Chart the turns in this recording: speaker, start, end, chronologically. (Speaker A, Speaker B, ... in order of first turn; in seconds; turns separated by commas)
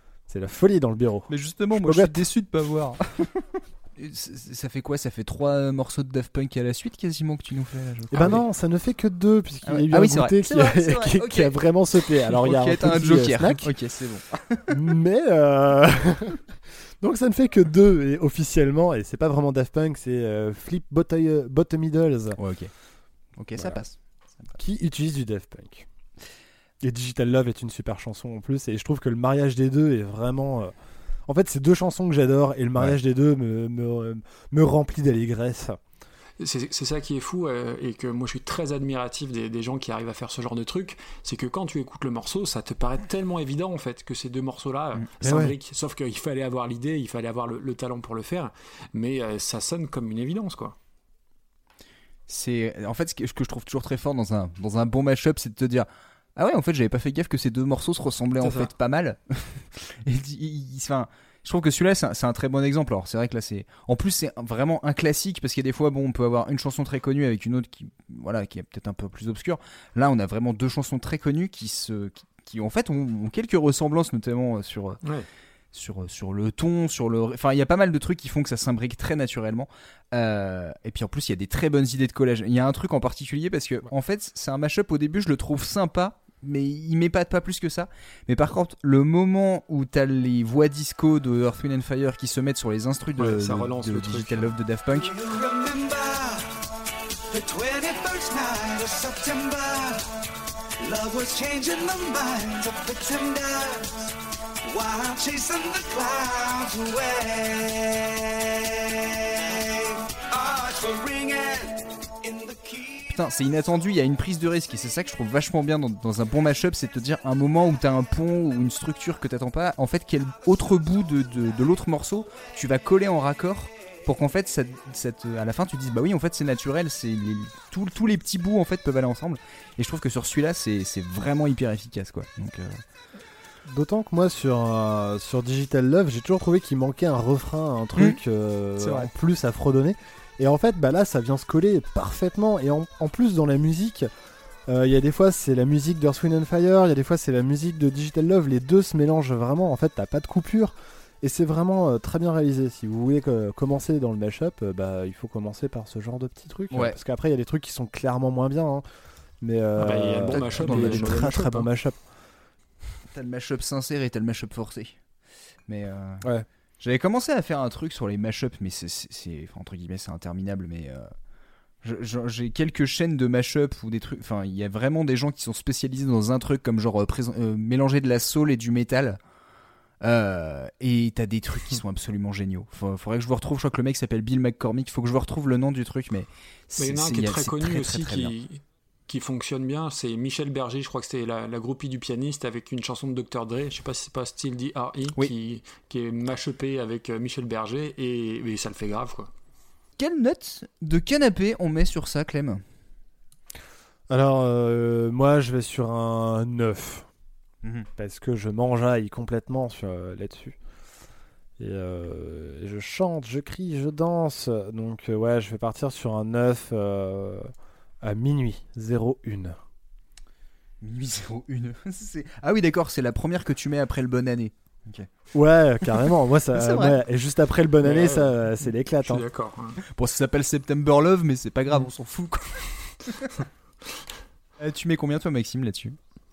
Speaker A: 0.3-2.2, Speaker B: 1.3-3.4, Speaker B: 4.0-8.4, Speaker A: 8.1-13.7, Speaker B: 9.7-11.5, Speaker B: 12.3-14.7, Speaker A: 14.7-16.4, Speaker A: 17.0-22.4, Speaker B: 22.4-22.7, Speaker B: 23.4-24.6, Speaker A: 23.6-23.8, Speaker A: 24.6-25.9, Speaker A: 26.8-30.7, Speaker A: 31.3-35.8, Speaker C: 36.4-50.8, Speaker A: 45.2-45.5, Speaker B: 52.3-75.0, Speaker C: 58.4-58.7, Speaker C: 75.0-75.3, Speaker B: 75.7-95.1, Speaker C: 93.2-94.5, Speaker D: 94.9-96.6, Speaker D: 97.3-100.1, Speaker D: 100.8-104.1, Speaker D: 104.6-113.1, Speaker B: 113.1-132.8, Speaker A: 133.7-144.1, Speaker B: 138.8-139.1, Speaker A: 144.7-158.8, Speaker A: 159.4-162.0, Speaker C: 159.8-161.7, Speaker B: 160.3-161.2, Speaker B: 163.1-165.0, Speaker B: 165.7-166.3, Speaker B: 166.8-171.1, Speaker B: 171.8-179.2, Speaker B: 180.0-188.3, Speaker C: 186.8-199.3, Speaker B: 200.0-202.6, Speaker A: 204.1-207.1, Speaker A: 208.0-210.6, Speaker A: 211.6-217.5, Speaker A: 218.0-219.6, Speaker B: 220.8-225.1, Speaker A: 225.3-229.2, Speaker B: 226.5-227.0, Speaker C: 227.8-228.3, Speaker C: 229.0-229.8, Speaker B: 229.8-233.3, Speaker B: 234.6-236.0